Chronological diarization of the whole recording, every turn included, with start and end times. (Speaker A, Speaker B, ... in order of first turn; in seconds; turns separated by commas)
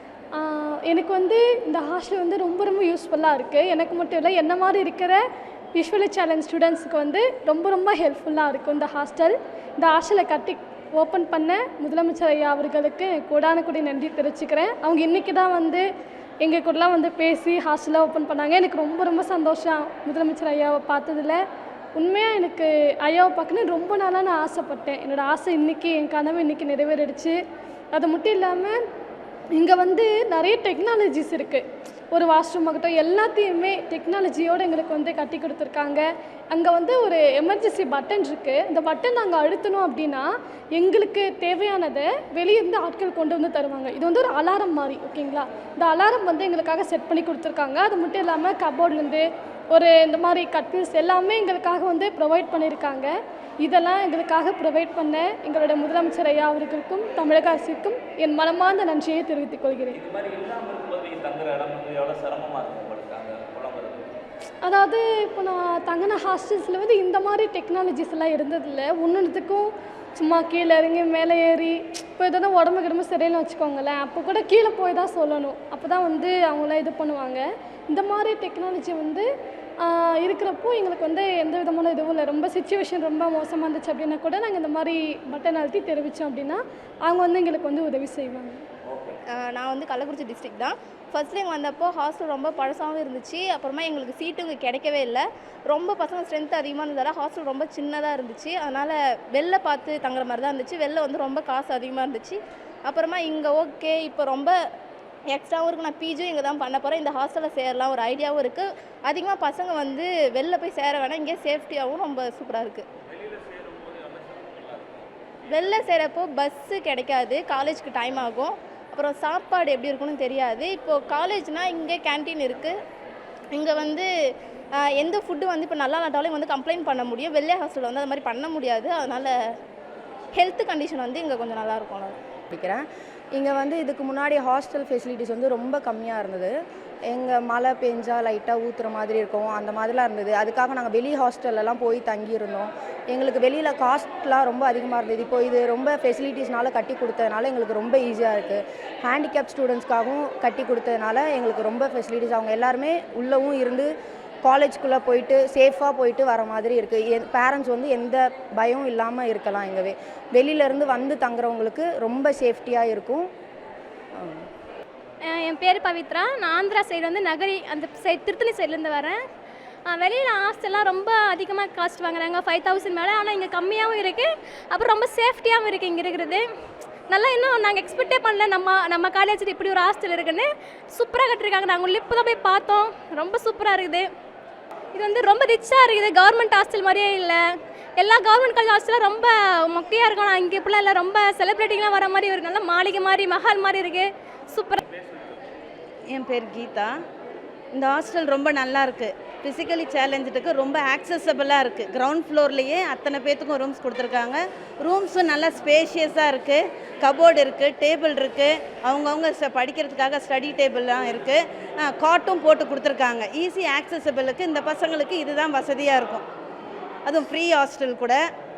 Speaker A: 0.3-5.2, Speaker A: 5.7-15.8, Speaker A: 16.4-21.4, Speaker A: 22.0-27.4, Speaker A: 27.9-28.8, Speaker A: 29.5-60.0, Speaker B: 59.9-64.1, Speaker A: 64.6-79.3, Speaker A: 79.8-88.7, Speaker B: 88.9-89.2, Speaker C: 89.3-104.5, Speaker C: 105.3-112.9, Speaker B: 113.1-115.1, Speaker C: 115.5-122.8, Speaker C: 123.5-124.1, Speaker C: 124.8-129.3, Speaker C: 130.3-132.2, Speaker D: 132.5-136.5, Speaker D: 137.1-153.9, Speaker D: 154.4-163.3, Speaker E: 165.2-169.2, Speaker E: 169.9-176.5, Speaker E: 177.1-184.1, Speaker E: 184.9-187.4, Speaker E: 188.0-194.8, Speaker F: 196.1-196.9, Speaker F: 197.7-216.2, Speaker F: 217.1-218.2